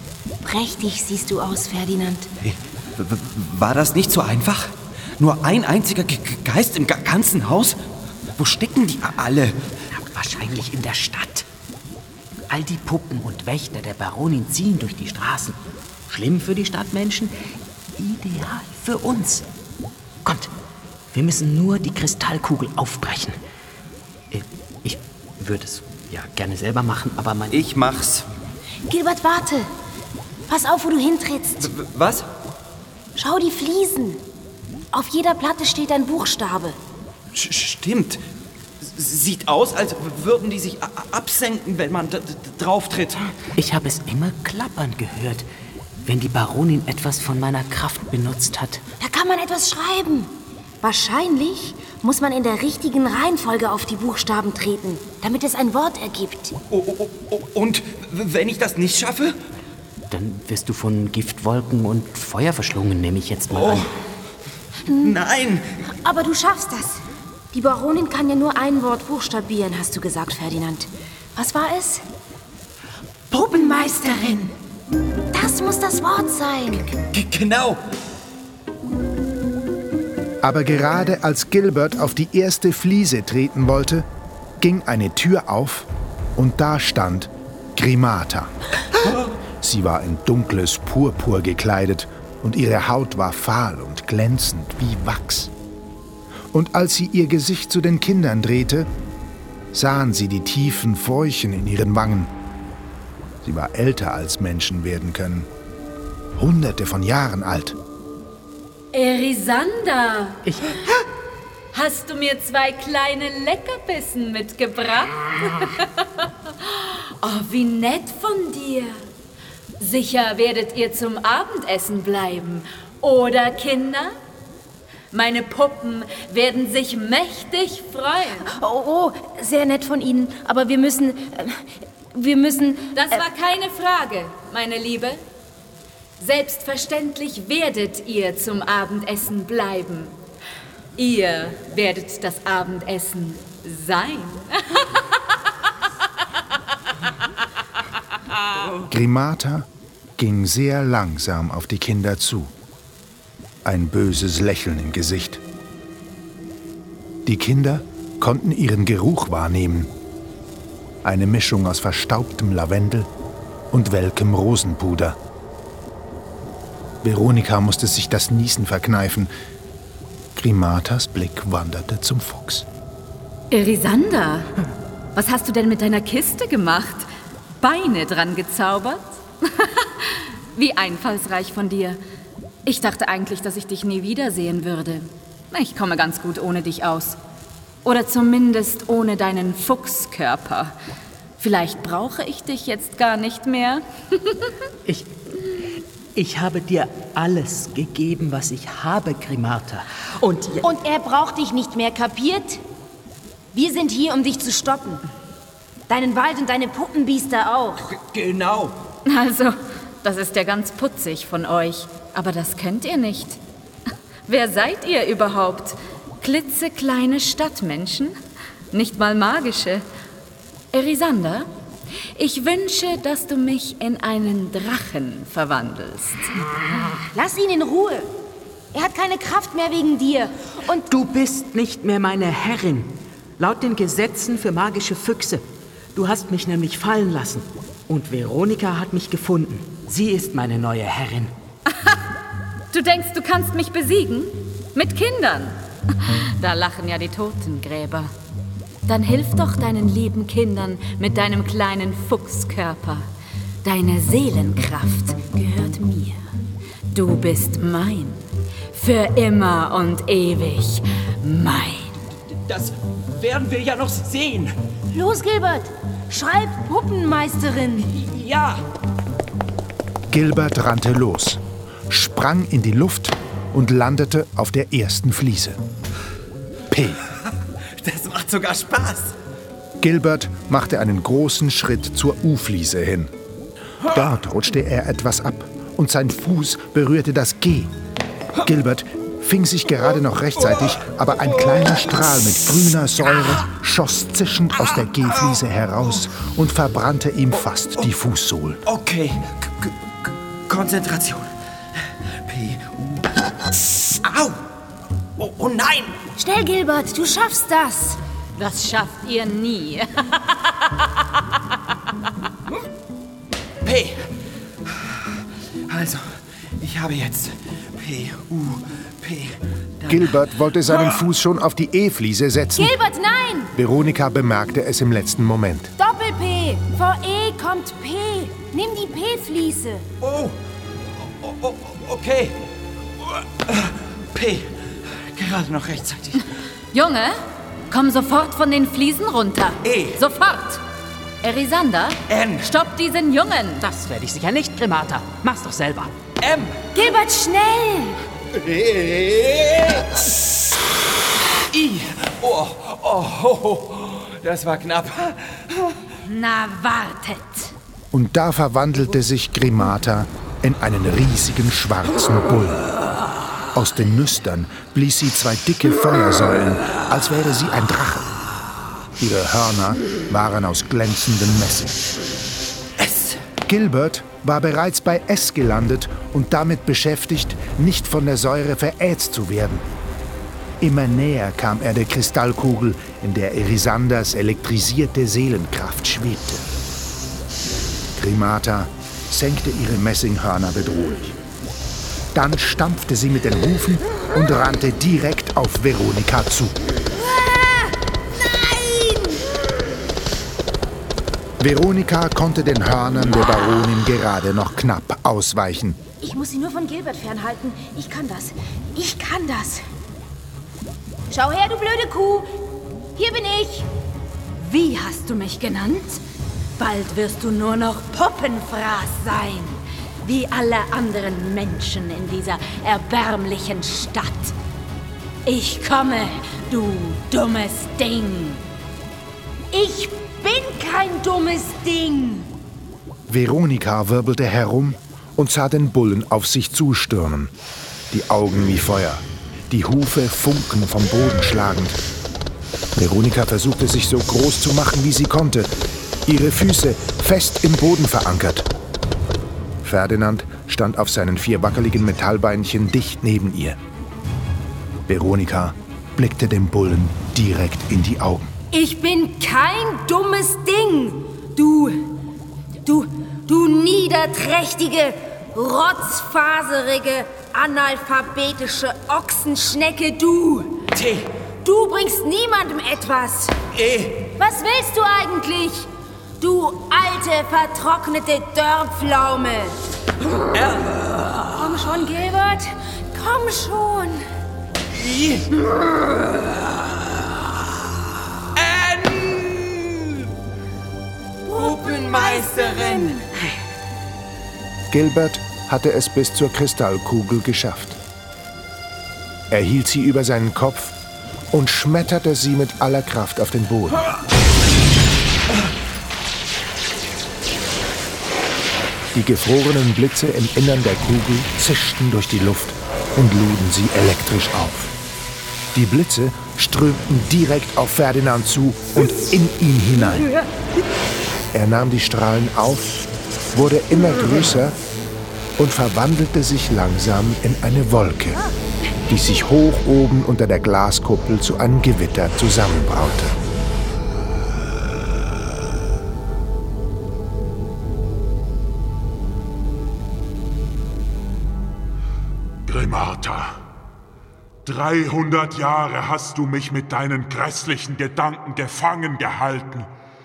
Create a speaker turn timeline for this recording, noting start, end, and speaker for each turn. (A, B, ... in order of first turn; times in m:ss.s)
0:00.4-0:02.3 A
0:02.4-0:07.8 B
0:08.4-0:09.6 B
0:10.0-0:11.5 C
0:12.5-0:15.6 C
0:16.1-0:17.3 C
0:18.0-0:19.5 C
0:20.2-0:20.5 C
0:21.1-0:23.4 C
0:24.3-0:27.6 C
0:27.5-0:28.3 B
0:28.9-0:29.7 A
0:30.5-0:31.7 A
0:31.6-0:32.2 B
0:33.2-0:34.2 A
0:34.9-0:36.8 A
0:37.3-0:38.2 B
0:38.8-0:43.4 B
0:43.6-0:45.5 C
0:46.0-0:48.8 C
0:49.0-0:50.3 A
0:50.8-0:56.5 A
0:56.7-0:59.4 B
1:00.1-1:03.9 C
1:03.5-1:03.9 B
1:05.0-1:05.8 B
1:06.0-1:07.0 A
1:07.5-1:12.0 A
1:13.3-1:14.5 A
1:15.3-1:16.9 A
1:17.0-1:17.8 B
1:20.4-1:24.1 D
1:24.6-1:28.5 D
1:29.6-1:35.5 D
1:36.5-1:38.9 D
1:39.7-1:42.3 D
1:43.4-1:45.5 D
1:46.4-1:47.8 D
1:48.9-1:50.4 E
1:50.4-1:51.0 C
1:51.7-1:59.0 E
1:59.8-2:04.2 E
2:05.1-2:08.5 E
2:08.5-2:13.2 A
2:12.9-2:15.2 E
2:16.2-2:20.2 E
2:21.0-2:25.0 E
2:28.9-2:32.5 D
2:33.6-2:35.4 D
2:37.2-2:39.9 D
2:41.0-2:43.1 D
2:43.7-2:45.2 D
2:47.0-2:49.3 D
2:50.4-2:52.7 D
2:53.5-2:54.5 E
2:55.2-3:02.0 E
3:02.6-3:07.2 E
3:07.8-3:10.8 E
3:11.4-3:14.5 E
3:14.8-3:15.1 C
3:16.2-3:20.6 C
3:20.6-3:22.6 A
3:23.5-3:25.0 A
3:25.9-3:27.9 A
3:27.9-3:28.8 B
3:29.1-3:33.4 E
3:34.3-3:38.1 E
3:38.7-3:39.8 E
3:40.7-3:41.5 E
3:42.2-3:46.3 E
3:47.1-3:48.1 A
3:48.7-3:50.9 A
3:50.9-3:55.4 C
3:56.0-4:01.3 C
4:01.7-4:02.0 E
4:02.7-4:08.1 E
4:08.8-4:13.1 E
4:13.6-4:16.2 E
4:16.9-4:18.2 E
4:18.7-4:22.0 E
4:22.1-4:24.6 B
4:24.9-4:27.9 A
4:27.9-4:28.6 B
4:30.1-4:35.6 D
4:36.7-4:37.0 D
4:37.8-4:39.2 B
4:39.8-4:43.1 D
4:43.9-4:47.7 D
4:48.4-4:58.6 D
4:55.1-4:55.4 B
4:58.7-5:01.3 B
5:02.2-5:04.4 B
5:05.2-5:06.0 B
5:06.2-5:08.0 A
5:08.4-5:10.9 E
5:13.6-5:14.2 B
5:14.7-5:15.1 B
5:15.7-5:21.0 B
5:19.9-5:22.8 D
5:22.6-5:23.5 A
5:23.6-5:25.7 D
5:25.8-5:29.8 A
5:30.0-5:30.4 B
5:31.0-5:32.4 B
5:33.0-5:36.3 B
5:36.7-5:37.2 E
5:37.7-5:40.6 E
5:39.6-5:40.0 B
5:41.2-5:43.6 E
5:42.1-5:42.5 B
5:43.6-5:45.9 C
5:46.2-5:46.6 B
5:46.8-5:48.0 A
5:48.3-5:50.1 B
5:51.5-5:55.8 B
5:56.1-5:57.5 E
5:57.9-6:02.6 D
6:03.5-6:08.1 D
6:09.0-6:11.8 D
6:12.8-6:13.2 B
6:13.4-6:19.7 D
6:20.6-6:26.5 D
6:28.0-6:31.2 D
6:32.1-6:36.6 D
6:36.9-6:37.8 A
6:38.3-6:39.2 A
6:41.4-6:45.8 D
6:46.0-6:49.6 A
6:51.1-6:52.3 A
6:53.0-6:53.7 A
6:54.4-6:56.0 E
6:56.6-7:04.3 E
7:05.3-7:08.4 E
7:09.5-7:12.3 A
7:13.1-7:17.3 D
7:17.9-7:21.8 D
7:22.8-7:25.5 D
7:26.1-7:28.5 D
7:29.6-7:33.6 D
7:34.9-7:38.3 D
7:38.5-7:41.9 A
7:42.6-7:50.7 A
7:50.7-7:51.1 B
7:51.4-7:53.4 A
7:53.5-7:54.1 B
7:54.2-7:55.7 A
7:56.2-7:59.6 A
8:00.1-8:01.4 B
8:01.3-8:04.1 A
8:04.7-8:05.8 B
8:08.4-8:10.0 B
8:11.3-8:13.0 B
8:11.3-8:13.1 A
8:14.7-8:17.8 D
8:19.3-8:20.8 D
8:21.3-8:23.8 D
8:28.9-8:34.7 D
8:35.5-8:40.1 D
8:41.3-8:42.8 D
8:43.3-8:44.6 D
8:45.4-8:48.2 D
8:48.9-8:53.2 D
9:02.5-9:03.4 F
9:04.4-9:09.7 F